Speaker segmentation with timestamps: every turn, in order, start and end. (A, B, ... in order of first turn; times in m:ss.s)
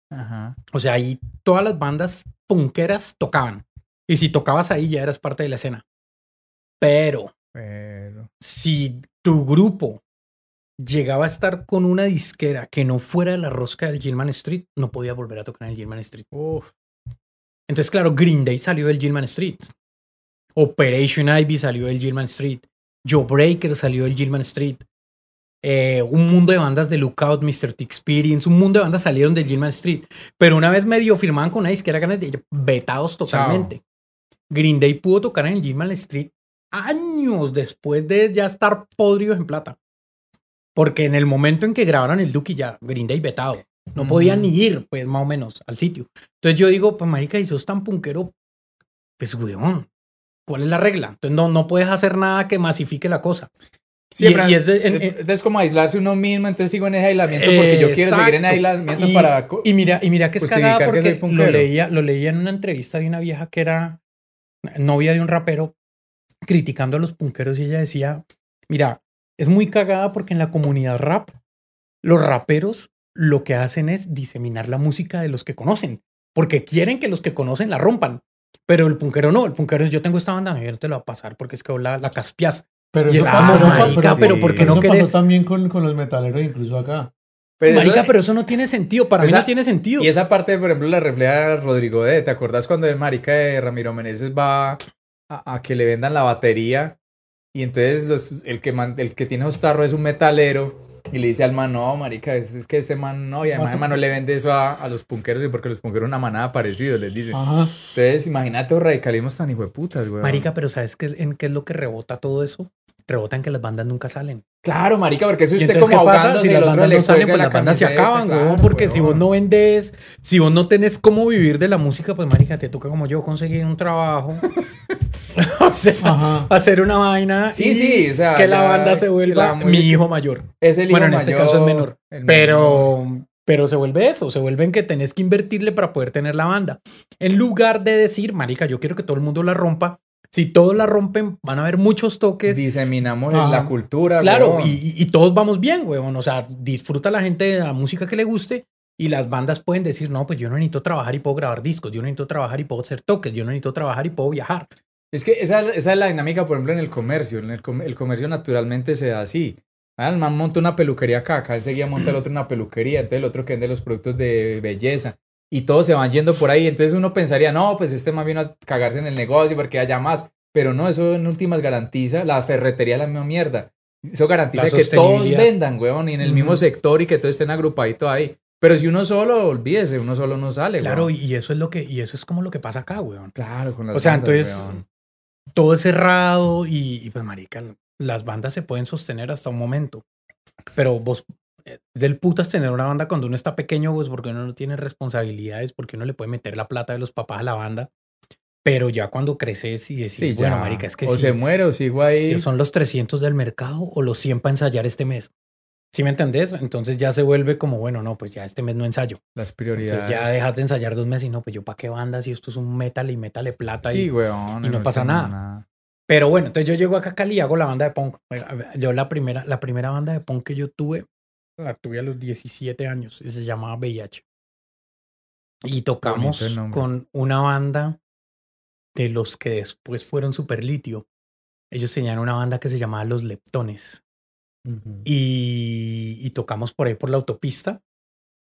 0:00.1-0:00.6 A
0:00.7-0:05.8 B
0:06.8-0:07.3 B
0:07.5-0:08.3 A
0:08.4-0:10.0 B
0:10.8-0:16.3 B
0:16.3-0:16.7 A
0:17.7-0:19.7 B
0:20.6-0:24.8 B
0:25.6-0:33.8 B
0:33.3-0:33.7 A
0:34.5-0:39.8 B
0:40.7-0:48.3 B
0:44.0-0:44.5 A
0:49.2-0:49.9 B
0:50.5-0:53.5 B
0:54.2-0:55.2 B
0:54.2-0:59.7 A
0:57.3-1:04.0 B
1:00.4-1:01.7 A
1:04.6-1:05.7 B
1:06.4-1:11.3 B
1:12.0-1:25.1 B
1:22.9-1:27.1 C
1:23.2-1:24.8 A
1:27.6-1:28.1 A
1:27.7-1:30.1 B
1:29.2-1:37.0 A
1:37.5-1:50.5 A
1:43.5-1:44.0 C
1:47.3-1:47.7 C
1:50.2-1:54.4 B
1:54.6-1:59.2 A
1:55.6-2:04.5 B
2:05.4-2:22.6 B
2:06.0-2:06.5 C
2:07.5-2:10.1 A
2:10.6-2:12.9 A
2:22.5-2:24.8 A
2:23.3-2:23.7 C
2:24.2-2:34.7 B
2:35.1-3:01.1 A
2:54.5-2:55.5 B
2:56.2-2:56.6 C
3:00.8-3:03.3 B
3:03.3-3:04.8 A
3:03.9-3:04.8 B
3:05.5-3:10.0 B
3:10.7-3:17.9 B
3:18.6-3:21.4 B
3:20.2-3:22.4 A
3:22.0-3:25.3 B
3:25.9-3:29.2 B
3:29.4-3:30.4 A
3:29.8-3:34.1 B
3:33.8-3:35.6 A
3:34.6-3:35.3 B
3:36.1-3:41.0 B
3:41.6-3:44.2 B
3:45.6-3:48.0 B
3:46.0-3:46.8 A
3:48.9-3:51.0 B
3:51.7-3:54.0 B
3:54.6-3:55.0 C
3:55.0-3:57.8 B